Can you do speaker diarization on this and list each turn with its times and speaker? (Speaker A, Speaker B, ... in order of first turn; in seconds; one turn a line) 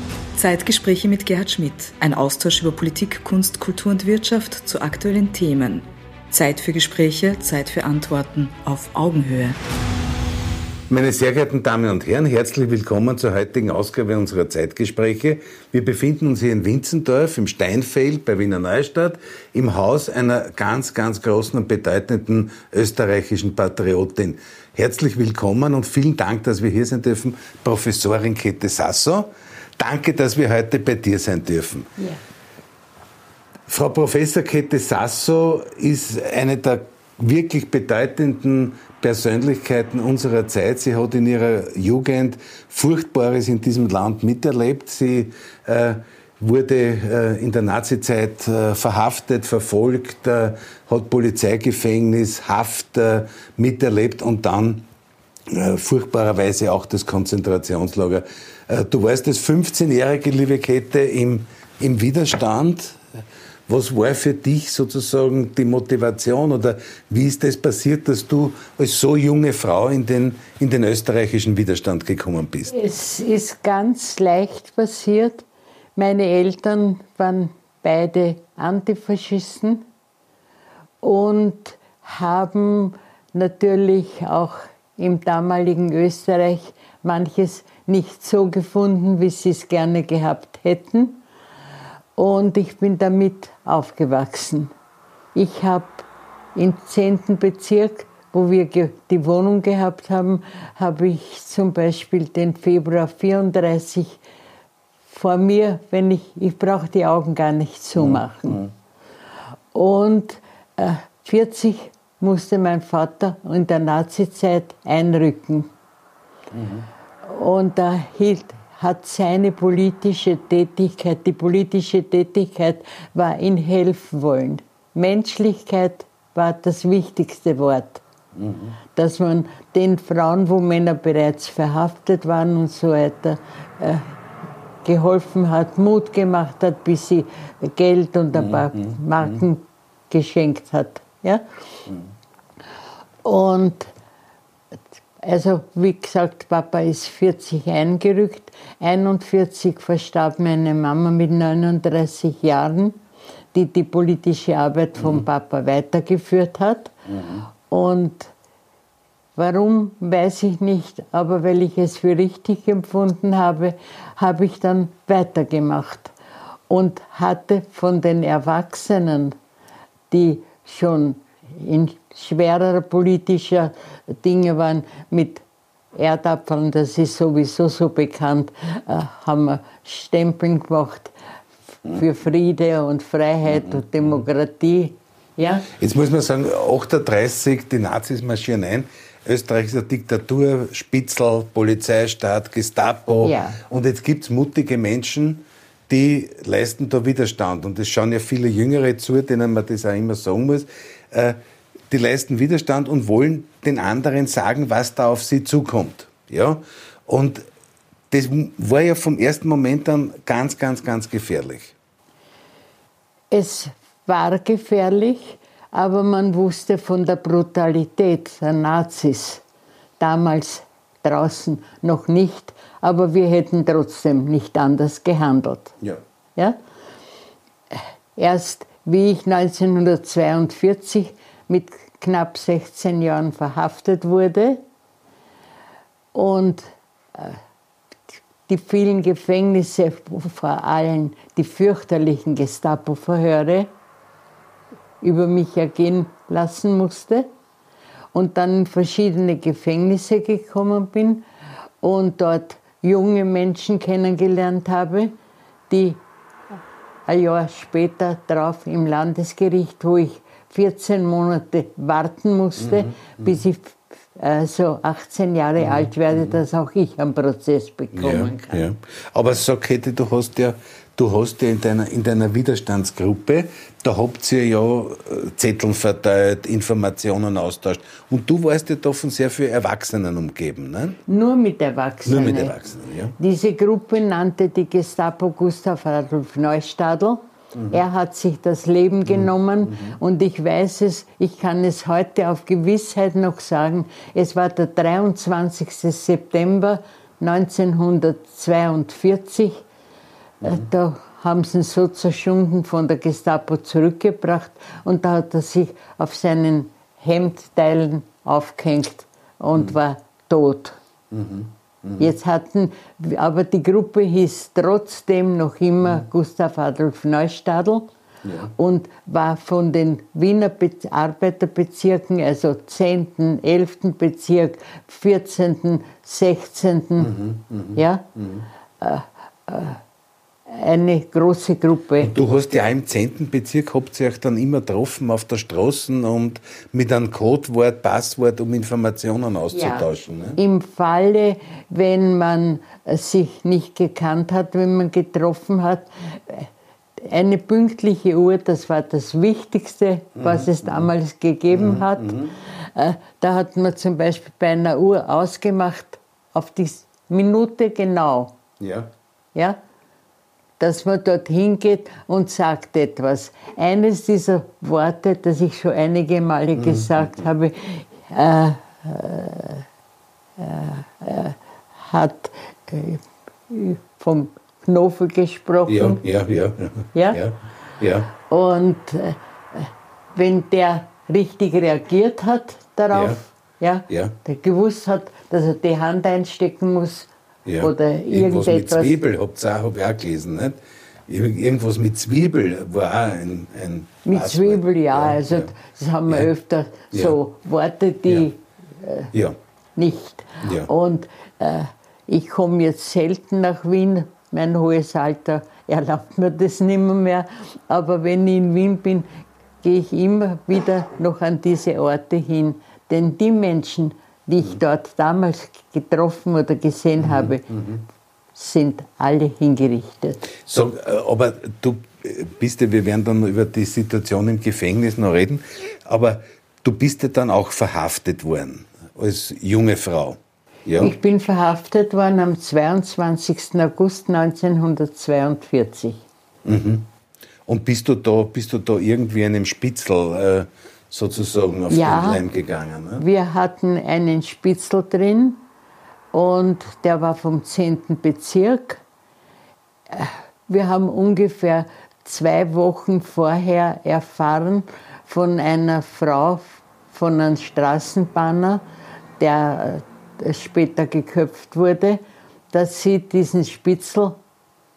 Speaker A: 0.4-9.6
Speaker B: 10.9-31.9
Speaker B: 33.7-54.8
Speaker B: 55.5-63.0
Speaker B: 63.7-72.7
Speaker C: 72.7-75.4
Speaker C: 76.0-79.8
Speaker C: 81.0-91.2
Speaker C: 92.2-94.7
Speaker C: 95.3-104.2
Speaker C: 105.1-108.6
Speaker B: 108.0-108.7
Speaker C: 109.7-115.7
Speaker B: 116.5-116.8
Speaker C: 117.2-128.0
Speaker B: 128.4-128.7
Speaker C: 128.9-134.1
Speaker C: 134.8-141.4
Speaker B: 138.3-138.9
Speaker C: 143.2-143.9
Speaker C: 145.2-153.0
Speaker C: 153.5-156.9
Speaker B: 157.1-157.4
Speaker C: 157.5-158.3
Speaker C: 159.3-166.1
Speaker C: 166.7-169.3
Speaker C: 170.1-181.1
Speaker C: 181.8-185.7
Speaker B: 185.7-201.4
Speaker C: 193.2-193.6
Speaker B: 201.9-207.4
Speaker B: 208.1-211.7
Speaker C: 213.3-219.4
Speaker C: 220.0-225.8
Speaker C: 227.7-234.6
Speaker C: 236.1-237.4
Speaker C: 238.5-243.7
Speaker C: 245.0-247.3
Speaker C: 248.1-251.2
Speaker C: 251.8-255.1
Speaker C: 255.7-256.0
Speaker C: 257.1-268.6
Speaker B: 262.6-263.3
Speaker B: 265.6-266.4
Speaker B: 267.9-281.0
Speaker C: 281.1-282.5
Speaker B: 282.0-283.1
Speaker C: 283.2-299.6
Speaker B: 289.1-290.0
Speaker C: 300.4-310.8
Speaker B: 311.1-312.1
Speaker C: 312.0-317.9
Speaker B: 318.2-318.5
Speaker C: 318.5-327.1
Speaker B: 327.0-328.4
Speaker C: 327.7-328.1
Speaker C: 328.8-329.8
Speaker C: 330.5-332.1
Speaker B: 332.0-340.4
Speaker C: 339.5-358.4
Speaker B: 350.2-350.9
Speaker B: 351.5-352.4
Speaker B: 358.6-358.9
Speaker C: 360.6-369.6
Speaker B: 366.6-367.2
Speaker C: 370.4-376.0
Speaker B: 375.6-378.1
Speaker C: 376.9-377.2
Speaker C: 378.2-387.1
Speaker B: 382.9-383.2
Speaker B: 383.9-384.1
Speaker B: 387.4-395.5
Speaker C: 387.6-389.0
Speaker C: 394.0-399.1
Speaker C: 399.8-409.1
Speaker B: 400.4-400.7
Speaker C: 409.6-417.6
Speaker B: 417.0-417.8
Speaker C: 418.3-420.3
Speaker B: 420.4-430.9
Speaker C: 430.8-436.0
Speaker B: 436.4-436.9
Speaker B: 437.4-443.0
Speaker C: 441.7-442.2
Speaker C: 443.0-445.4
Speaker C: 446.1-448.8
Speaker C: 449.9-458.6
Speaker C: 459.2-462.0
Speaker C: 462.5-464.2